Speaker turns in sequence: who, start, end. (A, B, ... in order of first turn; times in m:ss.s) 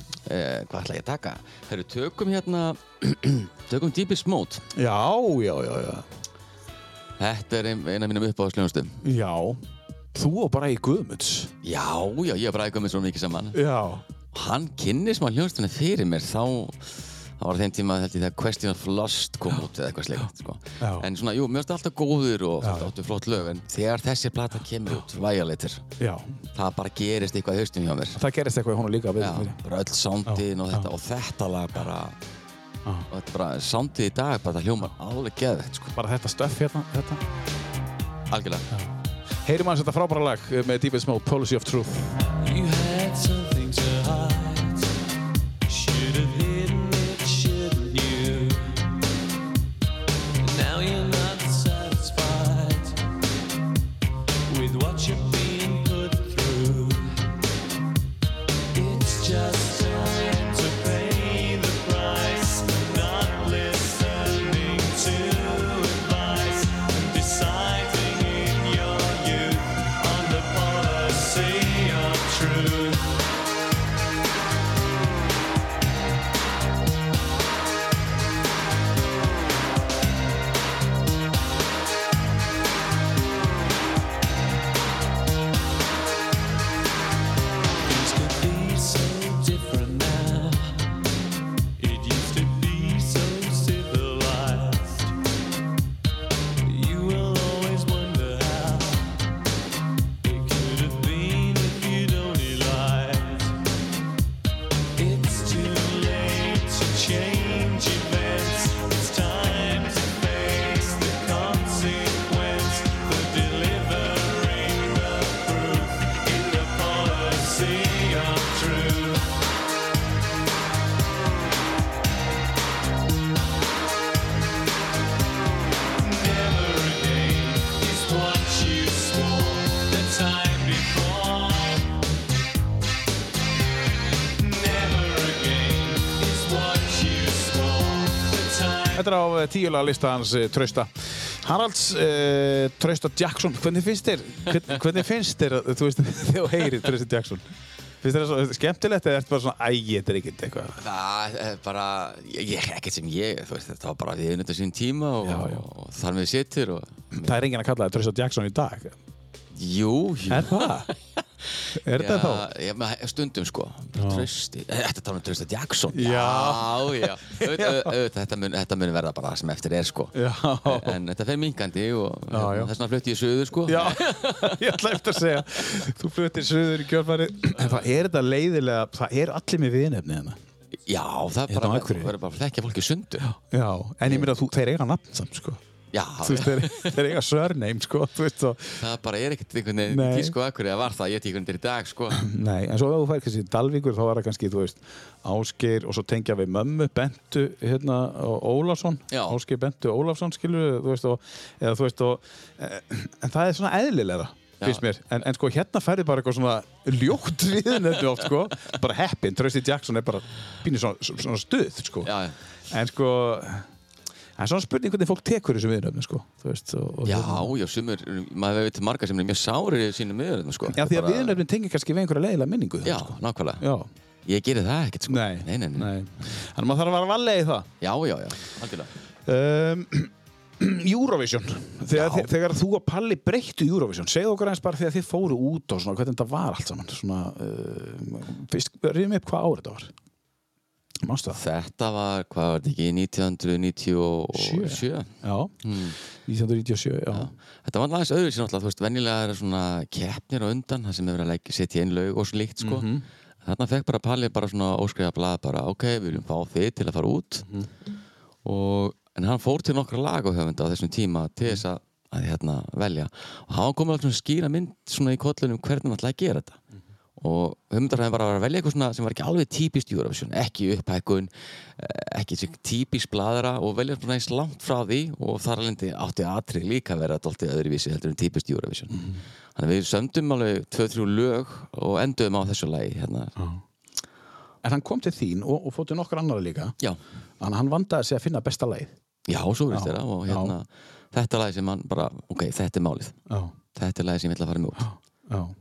0:00.3-0:04.6 A
0:04.7-0:06.1 B
0:07.2-0:09.0 A
0:09.0-0:09.6 B
0:10.1-0:11.5 B
0:11.6-0:13.6 A
0:13.5-0:14.0 B
0:14.3-0:25.8 A
0:20.8-0:21.1 B
0:22.6-0:22.9 B
0:26.0-0:26.3 B
0:26.5-0:28.2 A
0:28.2-0:29.6 B
0:29.2-0:32.2 A
0:30.3-0:30.9 B
0:33.1-0:36.0 A
0:36.0-0:37.2 B
0:38.3-0:38.6 A
0:39.4-0:42.2 B
0:42.4-0:44.9 C
0:45.7-0:48.8 C
0:50.4-0:53.0 C
0:54.5-0:57.2 C
0:58.8-1:12.9 C
1:27.8-1:30.8 C
1:31.8-1:35.1 C
1:36.6-1:39.1 C
1:40.2-1:43.5 C
1:45.0-1:59.0 C
2:06.0-2:11.4 C
2:14.4-2:18.8 C
2:18.9-2:27.4 B
2:28.0-2:30.8 B
2:30.8-2:37.3 A
2:35.2-2:35.7 B
2:37.1-2:39.0 B
2:39.5-2:40.9 A
2:40.3-2:40.9 B
2:41.6-2:55.2 A
2:41.8-2:42.5 B
2:44.0-2:44.3 B
2:45.9-2:47.9 B
2:50.1-2:51.0 B
2:52.3-2:52.7 B
2:53.6-3:00.4 B
3:00.9-3:03.3 A
3:01.5-3:02.1 B
3:03.3-3:05.6 B
3:05.9-3:07.0 A
3:06.2-3:08.8 B
3:08.8-3:12.2 A
3:09.9-3:10.4 B
3:12.1-3:32.1 B
3:19.1-3:19.4 A
3:32.0-3:32.4 A
3:32.7-3:33.7 B
3:34.4-3:37.5 B
3:37.0-3:41.4 A
3:40.7-3:43.9 B
3:42.8-3:43.6 A
3:44.3-3:45.9 A
3:45.1-3:47.7 B
3:47.8-3:48.9 A
3:49.3-3:59.9 B
3:51.9-3:52.3 A
4:01.0-4:01.4 B
4:01.3-4:06.0 A
4:04.3-4:05.6 B
4:06.2-4:07.3 B
4:07.1-4:12.9 A
4:12.6-4:13.0 B
4:13.4-4:17.5 A
4:18.4-4:26.6 A
4:27.2-4:43.4 A
4:38.9-4:39.2 B
4:44.6-4:46.8 B
4:47.4-4:48.9 B
4:49.3-4:53.2 A
4:49.7-4:50.5 B
4:53.3-4:53.5 B
4:53.8-4:54.9 A
4:54.8-4:55.5 B